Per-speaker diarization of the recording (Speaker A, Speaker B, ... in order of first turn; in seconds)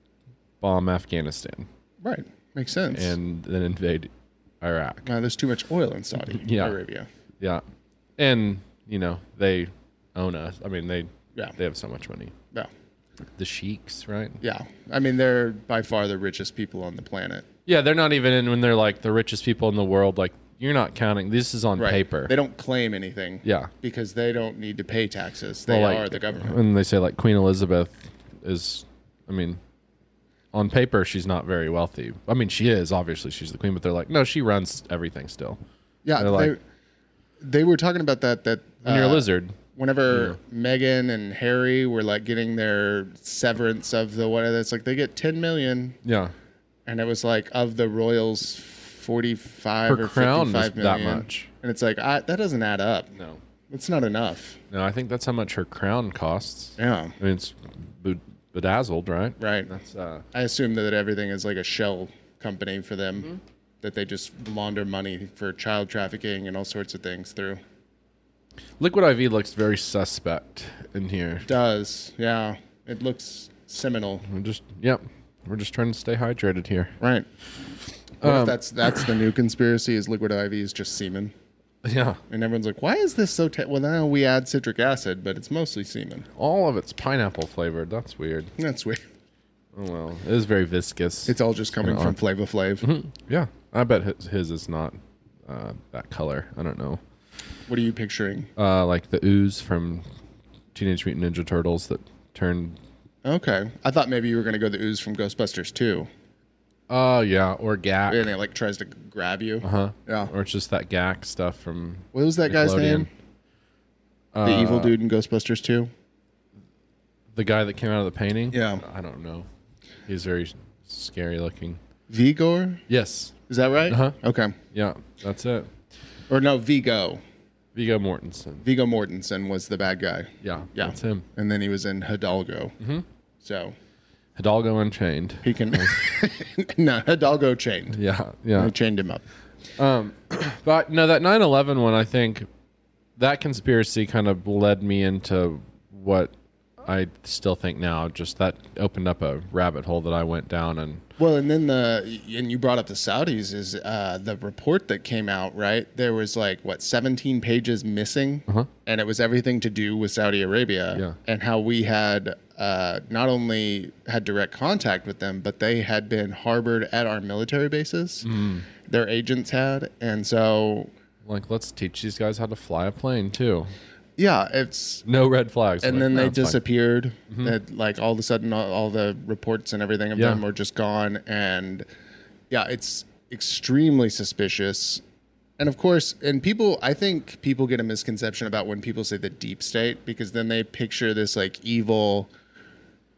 Speaker A: 0.6-1.7, 2.9-5.1, 6.3-6.8, 8.2-12.3, 13.4-14.4, 17.7-22.3, 23.4-23.7, 25.7-29.6, 30.5-35.6, 36.2-36.5, 38.8-39.6, 40.1-40.4, 46.0-46.3, 49.9-51.5, 53.1-53.4, 54.7-60.3, 68.8-71.5, 74.3-77.0, 78.2-78.6, 81.8-82.2, 86.3-88.5, 89.7-92.2, 92.8-97.0, 98.6-100.0, 100.7-102.8, 106.9-108.3, 109.6-113.1, 114.3-115.0, 117.3-119.5, 120.1-121.8, 122.9-123.3, 123.9-124.2, 124.7-125.7, 127.8-128.7, 130.4-131.2, 132.8-133.1, 134.4-136.1, 137.9-138.7, 139.8-142.5, 143.2-146.3, 146.8-151.1, 168.2-168.7, 171.2-173.7, 175.1-176.6, 177.3-177.6, 180.2-180.4
Speaker B: 2.0-3.2, 5.0-7.1, 14.4-17.5, 21.8-26.6, 36.0-36.6, 37.4-46.0, 46.9-53.1, 53.7-54.6, 56.8-57.2, 59.4-59.7, 60.3-63.3, 63.8-67.6, 71.5-74.3, 77.0-77.3, 78.2-81.3, 82.3-86.3, 88.6-89.0, 91.3-92.9, 97.7-98.5, 103.2-106.1, 108.1-110.3, 112.1-113.1, 114.4-115.9, 118.5-118.8, 122.1-122.8, 123.5-124.6, 126.3-127.2, 128.6-132.8, 133.4-133.8, 135.4-138.0, 138.6-139.2, 151.2-170.9, 174.2-175.0, 175.8-181.9, 182.5-185.0, 185.6-192.3